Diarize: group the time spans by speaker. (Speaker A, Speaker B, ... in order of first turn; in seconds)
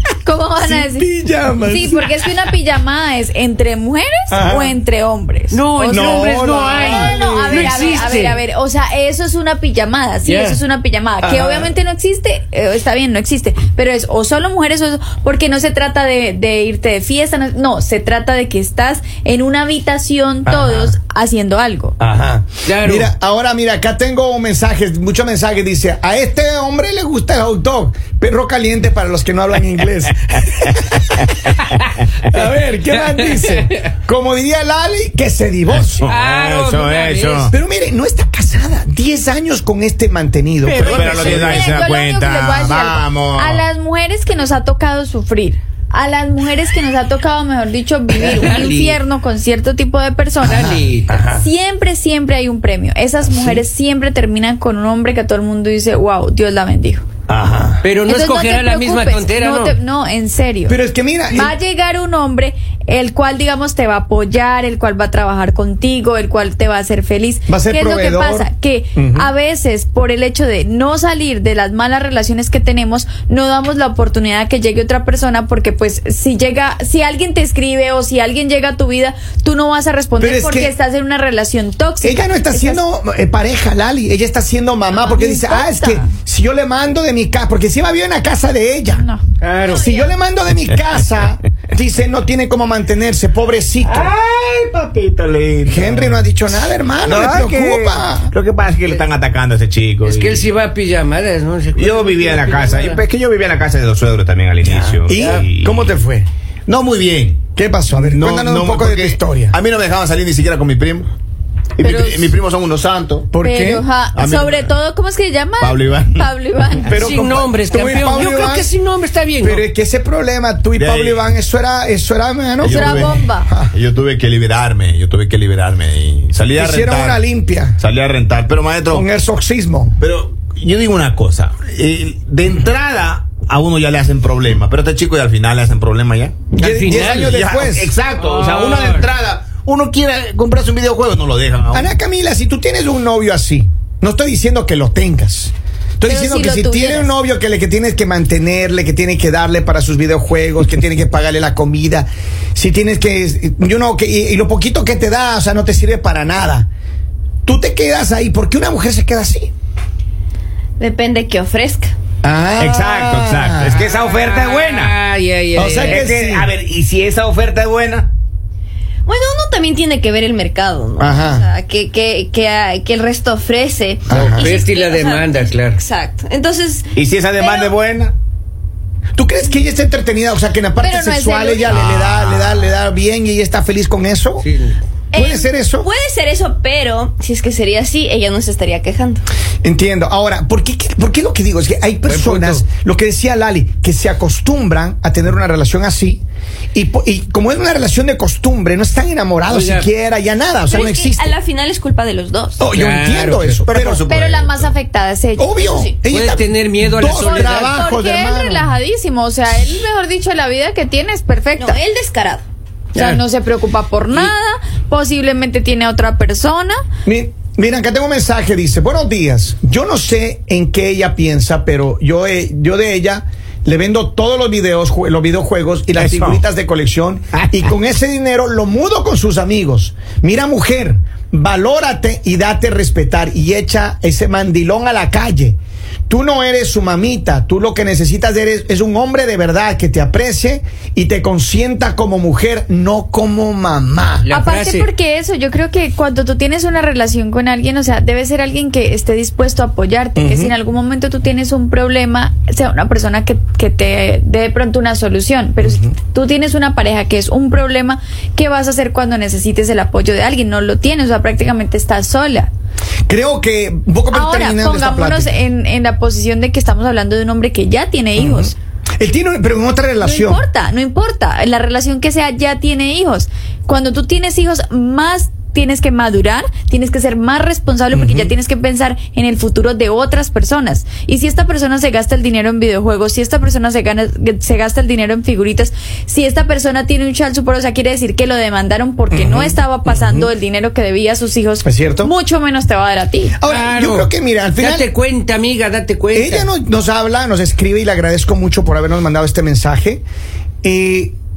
Speaker A: 0.2-1.1, 1.6-21.9, 40.9-50.7, 51.3-57.0, 58.0-60.8, 61.3-82.8, 84.9-86.1, 88.9-89.2, 89.7-90.1, 111.8-112.4, 113.4-117.1, 122.6-123.5, 146.0-147.1, 180.8-181.7, 204.1-205.5, 207.1-211.8, 212.9-216.8, 244.3-262.5, 264.1-268.5, 270.0-293.4
Speaker B: 0.6-2.1, 4.3-4.8, 5.9-8.1, 11.2-11.7, 20.4-20.9, 22.0-31.3, 32.2-36.1, 37.5-41.8, 50.4-51.5, 53.2-53.6, 57.3-57.8, 60.7-61.5, 67.5-69.3, 80.2-80.7, 82.0-89.0, 89.7-94.1, 95.7-98.3, 104.6-106.3, 107.5-109.6, 113.3-113.9, 116.8-118.7, 119.4-123.7, 126.5-127.8, 128.9-130.0, 136.5-137.9, 141.7-156.7, 157.4-159.5, 162.2-163.8, 165.6-166.5, 171.0-171.5, 174.1-174.5, 179.2-184.5, 185.1-185.9, 189.6-196.2, 196.7-201.4, 202.6-204.0, 205.4-208.8, 217.1-244.3, 250.2-250.5, 255.6-255.9, 263.1-265.4, 268.1-270.4, 277.9-278.3, 289.1-290.3, 291.6-292.1, 293.4-294.9, 296.1-300.0, 300.6-301.2
Speaker C: 5.5-8.4, 10.2-10.6, 22.6-23.1, 32.9-33.9, 36.0-37.5, 48.1-49.0, 50.4-51.2, 57.8-59.8, 89.4-89.9, 93.8-94.1, 100.0-103.0, 117.0-119.6, 136.6-137.4, 138.1-139.1, 163.8-166.0, 174.1-175.8, 184.4-184.8, 192.0-192.6, 199.5-199.9, 202.7-203.6, 206.1-207.7, 212.9-213.2, 244.2-244.9, 293.4-296.5
Speaker D: 31.3-32.0, 35.7-37.5, 40.6-43.6, 93.9-96.3, 97.0-100.5, 101.8-105.9, 106.7-111.1, 111.8-113.3, 114.1-114.7, 115.6-116.3, 120.8-121.3, 122.6-127.2, 127.8-129.1, 130.0-141.9, 162.6-164.9, 165.6-168.1, 176.9-178.1, 181.7-182.8, 203.6-204.7, 225.9-226.4, 227.4-227.7
Speaker E: 160.8-161.9, 169.1-177.8, 185.1-189.2, 200.7-202.6, 205.6-205.9, 211.6-212.4